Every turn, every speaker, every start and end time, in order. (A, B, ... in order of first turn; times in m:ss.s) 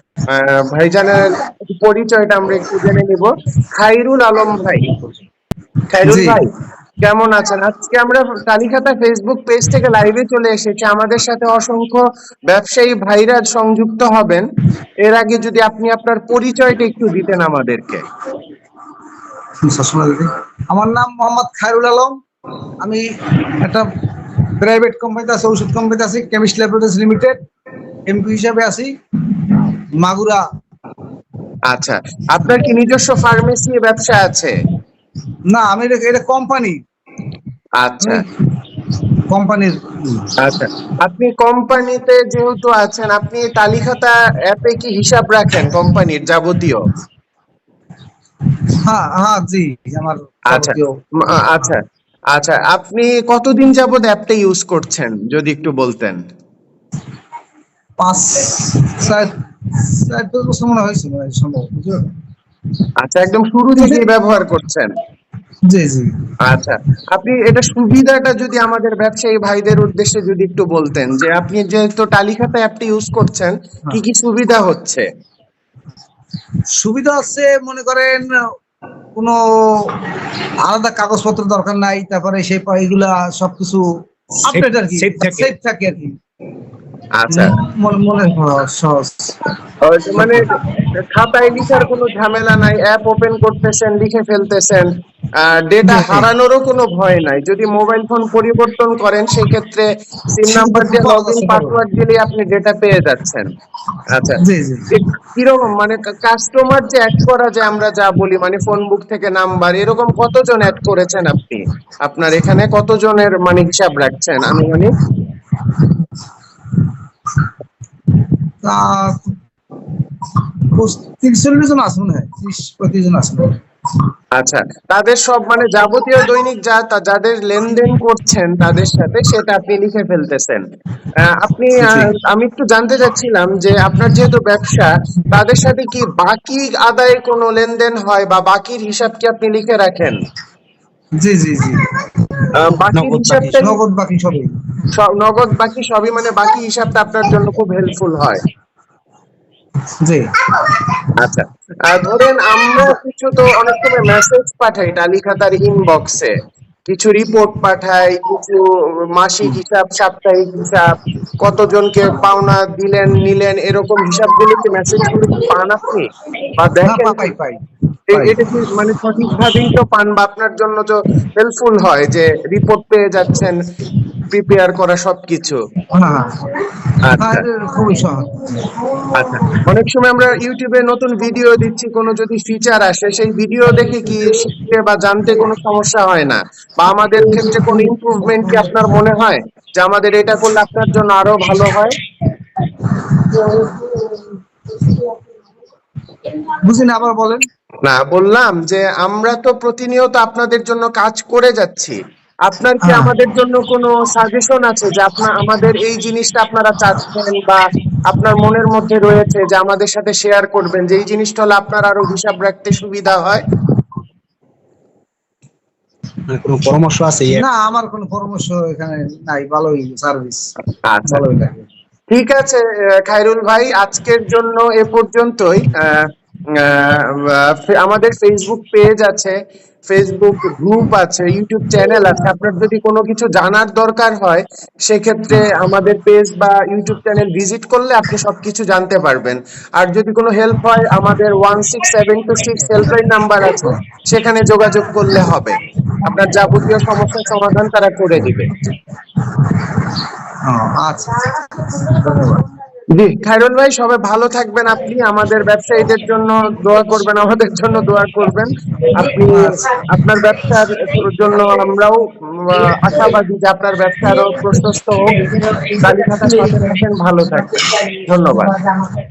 0:00.3-0:05.2 A
0:05.9-0:14.4 A
0:06.0-0:06.4 B
0:15.0-0:18.0 A
0:19.6-0:22.2 B
0:22.8-0:23.9 B
0:24.4-0:27.4 B
0:28.1-0:28.9 B
0:29.4-0:30.4 B
0:31.7-0:34.6 A
0:35.5-0:36.8 B
0:37.8-0:38.2 A
0:39.3-0:40.3 B
0:40.4-0:46.8 A
0:48.8-0:50.9 B
0:50.5-0:56.2 A
0:58.0-1:02.1 B
1:03.0-1:04.9 A
1:05.6-1:06.1 B
1:06.4-1:15.0 A
1:16.8-1:18.3 B
1:19.2-1:23.9 B
1:24.4-1:26.1 B
1:24.5-1:25.5 C
1:27.2-1:27.5 A
1:27.3-1:29.4 B
1:29.8-1:43.5 A
1:35.8-1:36.3 B
1:40.4-1:41.8 B
1:44.1-1:54.9 A
1:44.4-1:44.9 B
1:58.6-1:59.4 B
2:00.4-2:03.6 B
2:04.3-2:10.6 A
2:11.2-2:20.2 A
2:11.8-2:12.1 B
2:21.2-2:22.1 B
2:22.5-2:23.8 A
2:22.9-2:23.7 C
2:23.6-2:24.5 B
2:24.9-2:28.4 A
2:30.0-2:30.5 B
2:31.1-2:36.3 A
2:36.9-2:38.6 A
2:39.2-2:47.3 A
2:46.8-2:47.6 B
2:48.1-2:53.6 A
2:48.1-2:48.4 B
2:54.3-2:55.6 A
2:55.9-2:58.8 B
2:57.0-2:57.4 A
2:59.1-3:12.0 A
3:16.5-3:17.5 B
3:17.8-3:33.4 A
3:22.8-3:23.1 B
3:36.2-3:37.4 C
3:37.3-3:40.5 B
3:40.9-3:41.2 A
3:41.1-3:41.6 B
3:42.1-3:49.4 A
3:49.9-4:08.7 A
4:10.4-4:12.5 B
4:12.9-4:28.7 A